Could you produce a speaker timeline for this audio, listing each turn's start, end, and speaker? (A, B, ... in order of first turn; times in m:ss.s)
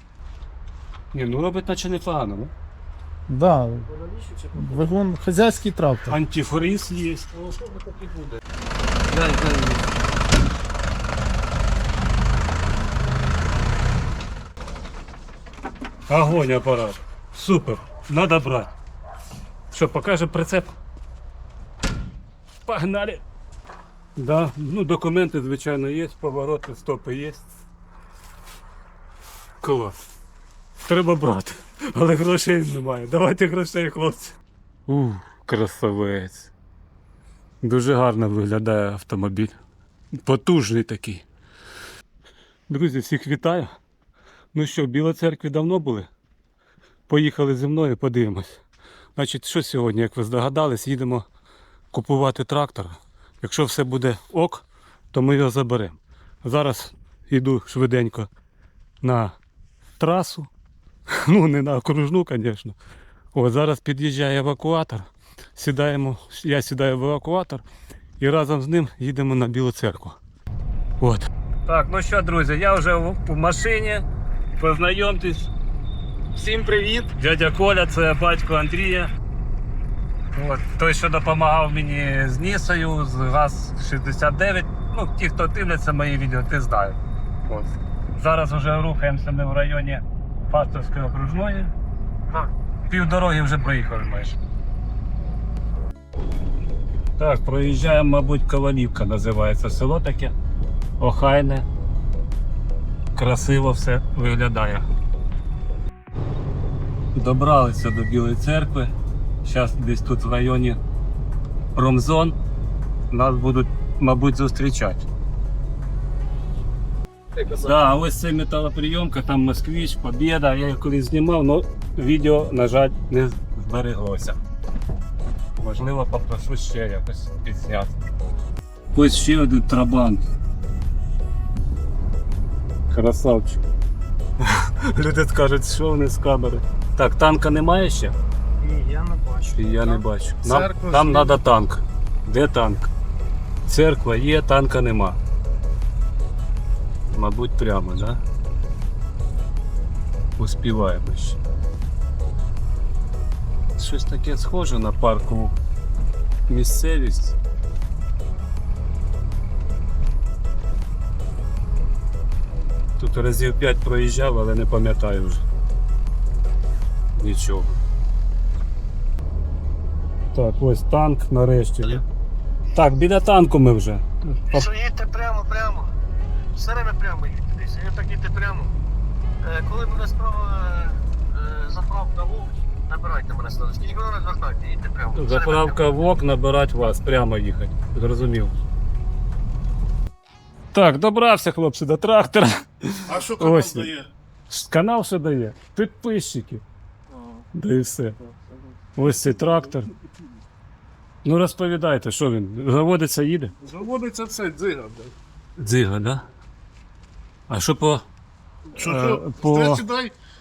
0:01.1-0:02.5 A
0:03.3-0:03.9 B
0:03.8-0:04.9 C
0:04.6-0:06.2 B
0:06.1-0:07.3 A
0:07.3-0:08.4 C
0:09.1-0:09.9 C
0:16.1-0:18.7 A
0:19.7-0:20.8 A
0:22.6-0:23.2 A
0:24.2-0:27.4 A
0:29.6-0:30.0 A
0:30.8-0:34.4 A
0:34.9-0:36.5 A
0:37.6-0:39.6 A
0:40.2-0:41.2 A
0:42.7-0:43.7 A
0:44.5-0:46.1 A
0:47.1-0:48.6 A
0:49.2-0:51.2 A
0:51.9-0:58.3 A
0:59.0-0:59.4 A
1:00.0-1:00.5 A
1:01.1-1:02.8 A
1:03.3-1:07.6 A
1:08.2-1:10.2 A
1:11.0-1:14.0 A
1:14.6-1:15.5 A
1:16.3-1:17.1 B
1:17.2-1:19.1 A
1:20.3-1:31.7 A
1:32.8-1:34.4 A
1:37.2-1:40.3 A
1:41.0-1:41.7 A
1:43.1-1:44.9 A
1:47.1-1:50.8 A
1:51.7-1:52.4 A
1:53.1-1:55.0 A
1:57.4-2:04.4 A
2:05.6-2:08.0 A
2:08.9-2:10.2 A
2:12.9-2:13.6 A
2:14.4-2:18.2 A
2:18.6-2:21.4 B
2:19.5-2:22.9 A
2:23.6-2:25.2 A
2:27.1-2:28.2 A
2:30.4-2:31.4 A
2:33.8-2:35.6 A
2:36.5-2:37.4 A
2:43.0-2:45.4 A
2:47.1-2:47.7 A
2:50.3-2:52.0 A
2:52.7-2:54.7 A
2:54.5-2:55.9 C
2:56.5-2:58.7 C
2:59.4-3:05.9 C
3:05.1-3:08.5 A
3:10.7-3:13.9 A
3:13.1-3:14.1 D
3:14.5-3:16.6 A
3:17.1-3:17.4 D
3:17.5-3:18.2 A
3:18.9-3:19.9 A
3:21.2-3:23.5 A
3:23.6-3:25.1 D
3:25.6-3:26.3 A
3:27.5-3:28.0 A
3:28.7-3:30.1 D
3:28.8-3:29.8 A